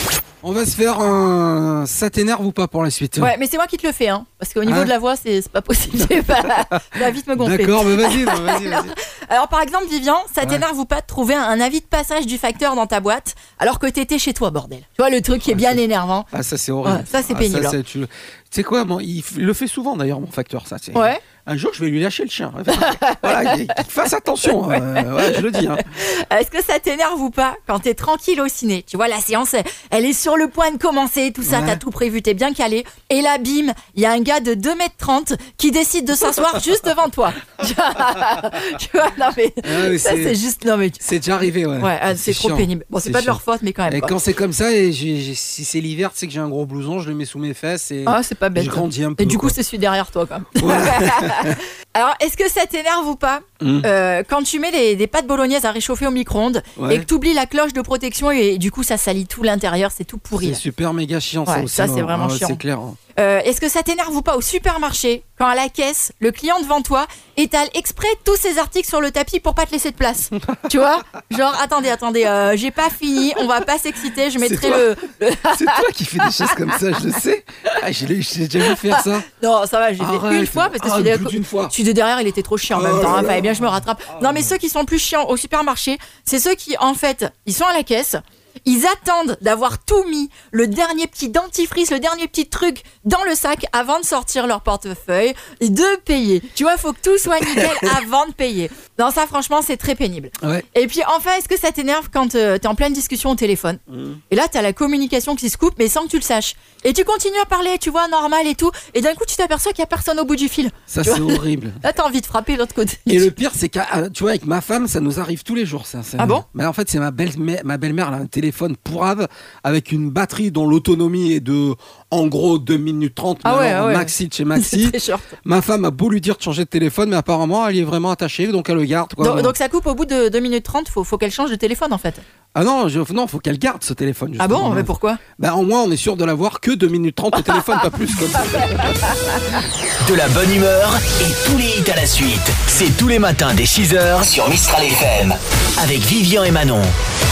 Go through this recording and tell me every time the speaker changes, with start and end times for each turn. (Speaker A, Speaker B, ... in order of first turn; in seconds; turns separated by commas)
Speaker A: 0.4-3.3, Speaker B: 3.2-16.3, Speaker A: 4.7-4.9, Speaker A: 6.0-8.9, Speaker A: 15.5-15.8, Speaker A: 16.3-25.8, Speaker B: 16.8-17.8, Speaker B: 20.9-21.2, Speaker B: 22.7-23.7, Speaker B: 24.5-41.0, Speaker A: 31.4-31.8, Speaker A: 39.6-40.4, Speaker A: 41.0-49.5, Speaker B: 41.8-44.1, Speaker B: 48.0-60.6, Speaker A: 50.6-51.6, Speaker A: 53.6-53.9, Speaker A: 56.8-57.1, Speaker A: 60.4-63.0, Speaker B: 61.5-62.6, Speaker B: 63.2-76.8, Speaker A: 70.4-70.7, Speaker A: 74.4-74.9, Speaker A: 75.4-79.2, Speaker B: 78.6-103.8, Speaker A: 80.0-81.7, Speaker A: 82.7-83.8, Speaker A: 103.9-104.2, Speaker B: 104.3-113.3, Speaker A: 110.9-111.8, Speaker A: 113.1-129.5, Speaker B: 116.2-116.4, Speaker B: 123.4-125.3, Speaker B: 129.2-132.2, Speaker A: 132.5-139.0, Speaker B: 134.4-135.2, Speaker C: 140.0-146.9